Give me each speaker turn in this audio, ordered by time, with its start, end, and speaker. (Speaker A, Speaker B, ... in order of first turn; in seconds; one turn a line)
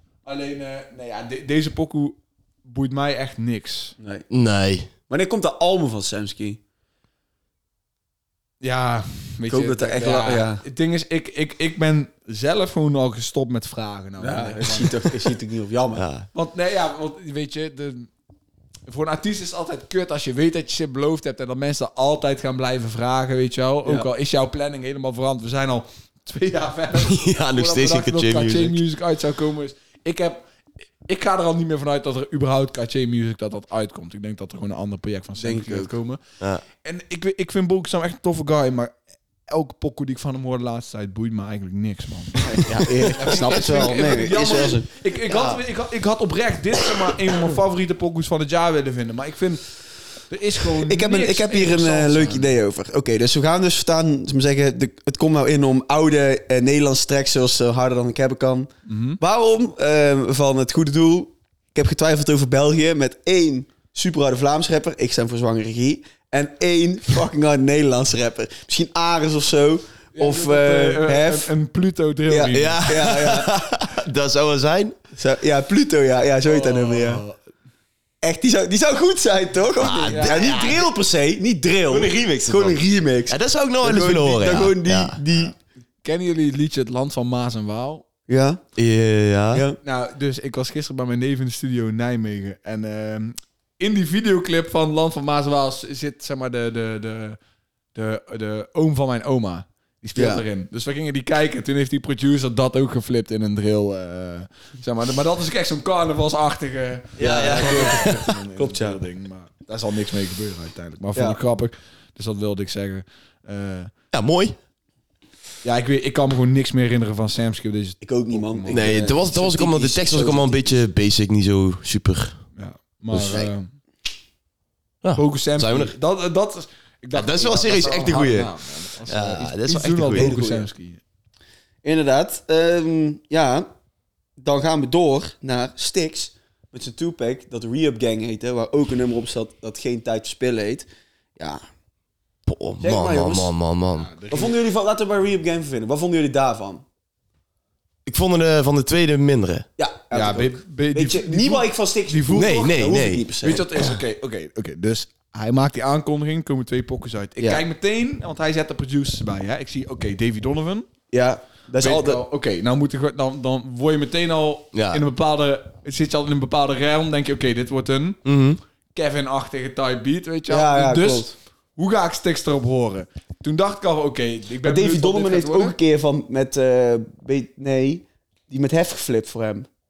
Speaker A: 0.2-4.0
Speaker B: 4.0-4.2
Speaker C: 4.3-4.9
Speaker B: 5.1-6.6
Speaker A: 8.6-15.3
Speaker B: 9.5-10.6
Speaker B: 14.2-16.1
Speaker C: 16.0-16.3
Speaker A: 16.3-18.1
Speaker A: 18.9-30.4
Speaker C: 27.0-28.8
Speaker A: 31.1-36.2
Speaker B: 35.4-35.9
Speaker A: 36.8-38.9
Speaker A: 39.5-52.5
Speaker B: 42.6-44.9
Speaker C: 45.3-45.6
Speaker B: 50.9-71.5
Speaker A: 58.9-59.2
Speaker A: 70.1-73.0
Speaker B: 72.3-73.5
Speaker C: 72.5-75.0
Speaker B: 75.1-77.2
Speaker A: 76.5-77.3
Speaker B: 78.2-85.5
Speaker C: 79.8-80.4
Speaker A: 80.0-80.8
Speaker C: 81.9-85.2
Speaker A: 86.0-88.0
Speaker B: 88.3-88.6
Speaker C: 88.8-89.6
Speaker A: 89.8-97.4
Speaker A: 98.0-113.9
Speaker B: 100.1-100.4
Speaker C: 107.2-108.3
Speaker B: 107.2-109.0
Speaker C: 114.1-114.6
Speaker A: 115.6-119.1
Speaker B: 118.0-120.8
Speaker C: 118.7-122.4
Speaker A: 122.5-123.7
Speaker C: 123.1-123.5
Speaker C: 125.0-125.9
Speaker A: 125.1-131.0
Speaker C: 127.1-128.5
Speaker C: 129.1-130.3
Speaker B: 130.1-130.7
Speaker B: 131.8-133.7
Speaker B: 134.4-141.6
Speaker C: 142.5-144.1
Speaker B: 142.8-143.5
Speaker A: 144.0-144.5
Speaker B: 144.3-146.8
Speaker C: 148.1-149.7
Speaker B: 149.8-153.7
Speaker A: 150.1-152.7
Speaker C: 152.3-153.2
Speaker A: 153.4-160.9
Speaker B: 161.1-162.2
Speaker A: 161.8-168.2
Speaker C: 164.7-165.0
Speaker C: 168.2-168.6
Speaker A: 168.9-175.8
Speaker B: 170.5-171.3
Speaker B: 174.6-179.7